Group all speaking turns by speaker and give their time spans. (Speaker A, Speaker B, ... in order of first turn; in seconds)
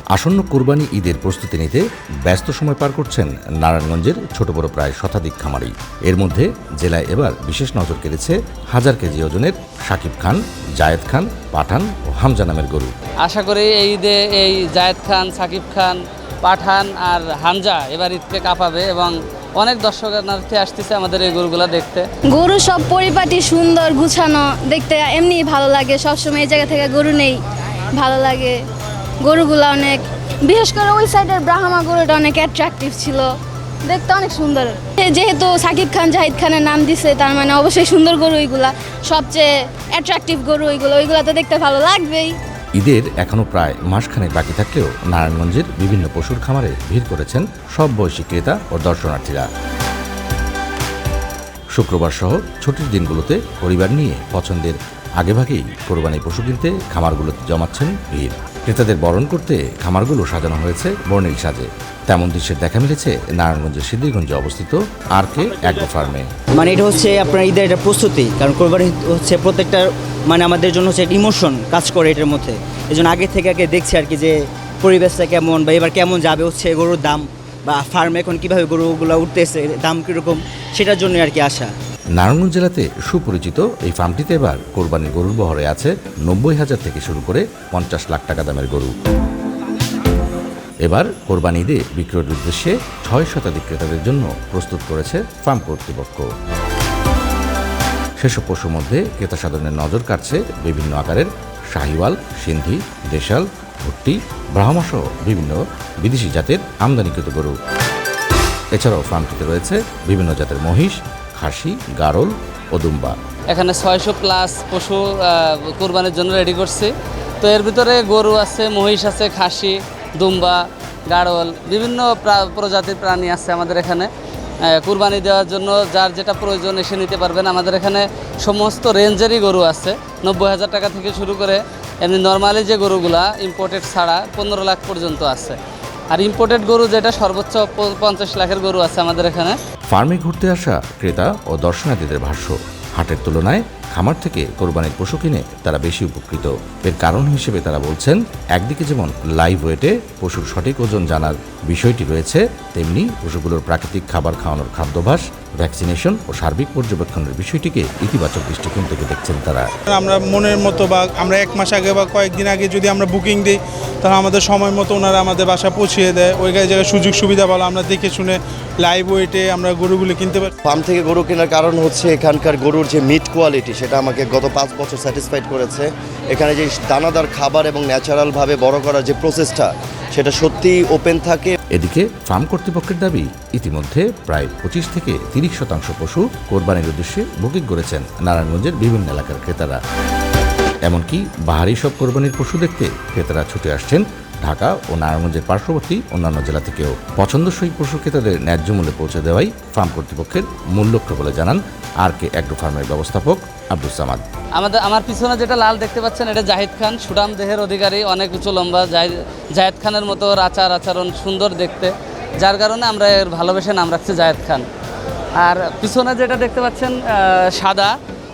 Speaker A: 0.1-12.9, 42.8-49.5, 51.7-66.3, 82.1-88.9, 90.8-96.3, 98.2-107.5, 108.7-113.2, 139.9-159.7, 181.7-189.8, 190.8-204.2
Speaker B: 13.2-22.1, 113.5-120.6, 121.1-124.1, 124.7-135.6, 136.1-139.6, 204.5-214.6, 215.4-217.9
Speaker C: 22.3-27.4, 27.9-28.6, 29.2-33.3, 33.8-42.4
Speaker D: 66.5-81.7
Speaker E: 159.9-170.5
Speaker F: 170.7-181.6